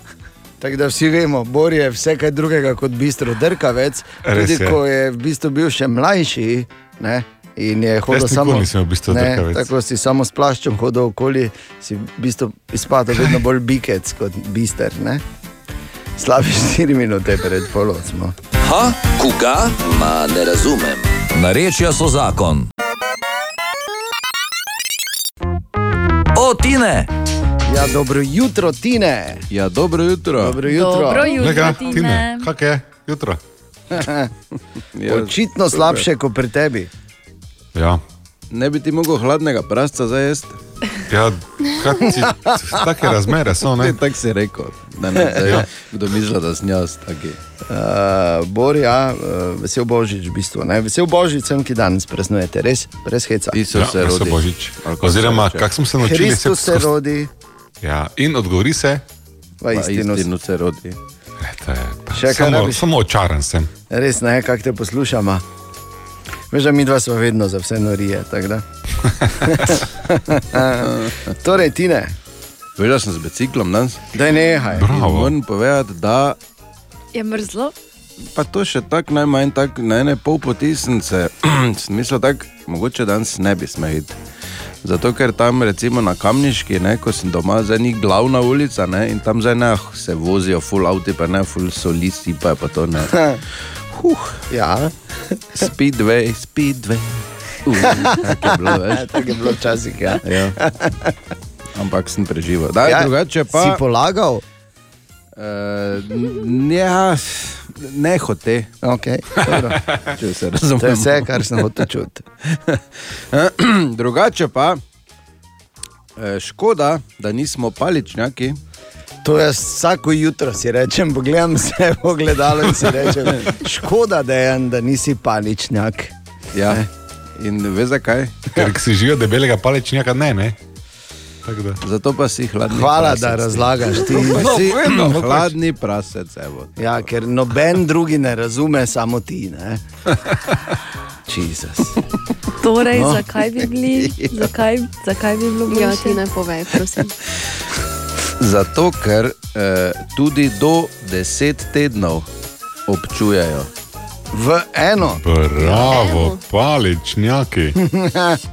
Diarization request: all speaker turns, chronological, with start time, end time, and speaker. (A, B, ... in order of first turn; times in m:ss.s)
0:00.6-0:15.2 A
0:04.2-0:04.8 B
0:08.1-0:09.7 B
0:16.2-0:18.3 A
0:18.6-0:22.7 C
0:26.3-0:27.1 C
0:27.7-0:29.4 A
0:29.5-0:30.6 D
0:30.4-0:31.4 A
0:30.6-0:32.4 E
0:31.4-0:33.4 B
0:33.9-0:34.3 A
0:35.0-0:36.0 D
0:35.1-0:36.9 A
0:37.7-0:38.0 B
0:38.5-0:40.6 D
0:41.1-0:44.0 B
0:43.8-0:47.4 D
0:47.7-0:53.6 A
0:53.5-0:55.7 D
0:53.7-0:56.9 B
0:56.0-0:57.3 A
0:57.8-0:59.0 B
0:59.6-1:00.3 A
0:59.7-1:01.0 D
1:01.4-1:03.7 B
1:02.1-1:02.8 A
1:03.9-1:05.4 A
1:06.5-1:08.6 A
1:09.3-1:09.7 B
1:09.4-1:12.1 A
1:10.9-1:11.1 D
1:12.8-1:14.0 D
1:14.1-1:14.9 A
1:14.7-1:15.3 B
1:14.9-1:16.4 D
1:17.1-1:17.7 E
1:18.3-1:24.2 D
1:24.8-1:33.1 D
1:33.1-1:33.4 A
1:34.5-1:34.9 A
1:35.5-1:37.0 D
1:37.6-1:39.2 D
1:37.8-1:41.2 A
1:40.2-1:40.6 D
1:41.8-1:43.8 D
1:42.8-1:44.4 A
1:45.4-1:48.7 D
1:48.8-1:49.8 A
1:50.2-1:51.6 D
1:50.8-1:52.2 A
1:52.5-1:54.8 D
1:56.2-1:58.6 D
1:59.2-2:06.1 A
2:06.5-2:06.8 D
2:07.4-2:08.4 D
2:08.6-2:10.6 B
2:11.4-2:11.8 B
2:11.8-2:16.8 D
2:12.7-2:15.3 A
2:14.8-2:15.3 B
2:16.8-2:19.8 A
2:21.3-2:22.0 A
2:22.6-2:26.2 E
2:22.9-2:23.2 A
2:25.7-2:27.1 F
2:28.4-2:32.3 D
2:32.9-2:33.7 D
2:34.3-2:35.2 A
2:35.2-2:37.8 B
2:35.6-2:36.4 F
2:37.8-2:38.4 A